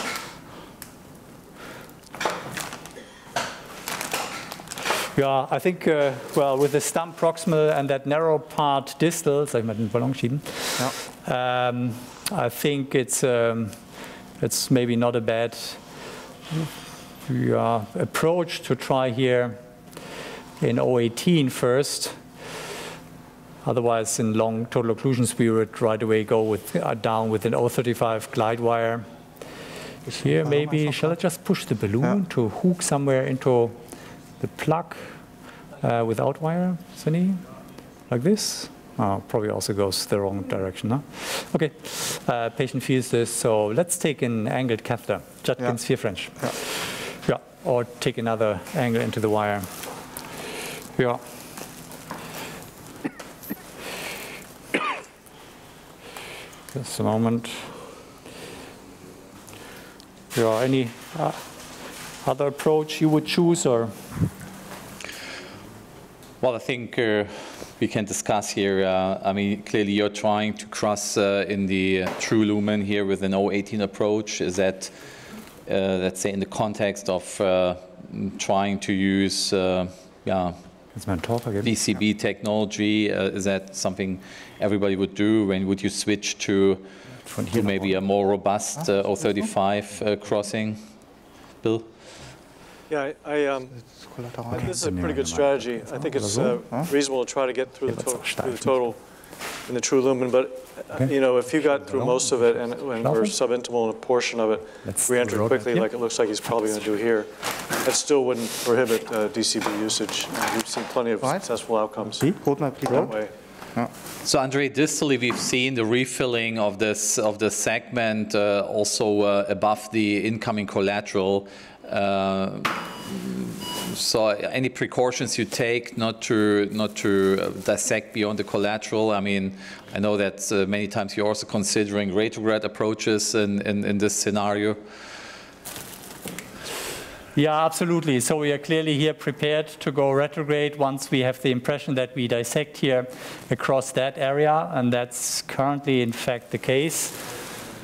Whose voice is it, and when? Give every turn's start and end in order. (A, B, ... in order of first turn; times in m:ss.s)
0:05.1-0:13.8 A
0:14.4-0:15.8 A
0:17.2-0:19.6 A
0:20.6-0:22.2 A
0:23.6-0:29.0 A
0:30.1-0:31.0 B
0:30.2-0:33.8 A
0:34.4-0:35.2 A
0:35.8-0:37.4 A
0:38.1-0:49.7 A
0:51.0-0:51.2 A
0:56.7-0:57.7 A
1:00.3-1:01.4 A
1:02.2-1:04.0 A
1:06.4-1:15.0 C
1:15.6-1:20.6 C
1:20.9-1:21.7 A
1:21.6-1:26.8 C
1:27.2-1:27.9 A
1:27.5-1:30.9 C
1:31.6-1:31.8 C
1:32.9-1:33.8 D
1:33.9-1:34.7 B
1:34.6-1:39.0 D
1:34.6-1:36.6 A
1:37.8-1:38.8 A
1:39.6-1:53.3 D
1:40.9-1:43.4 A
1:44.8-1:45.9 A
1:46.4-1:46.9 A
1:52.4-1:53.1 B
1:54.2-2:14.8 C
2:17.3-2:27.2 A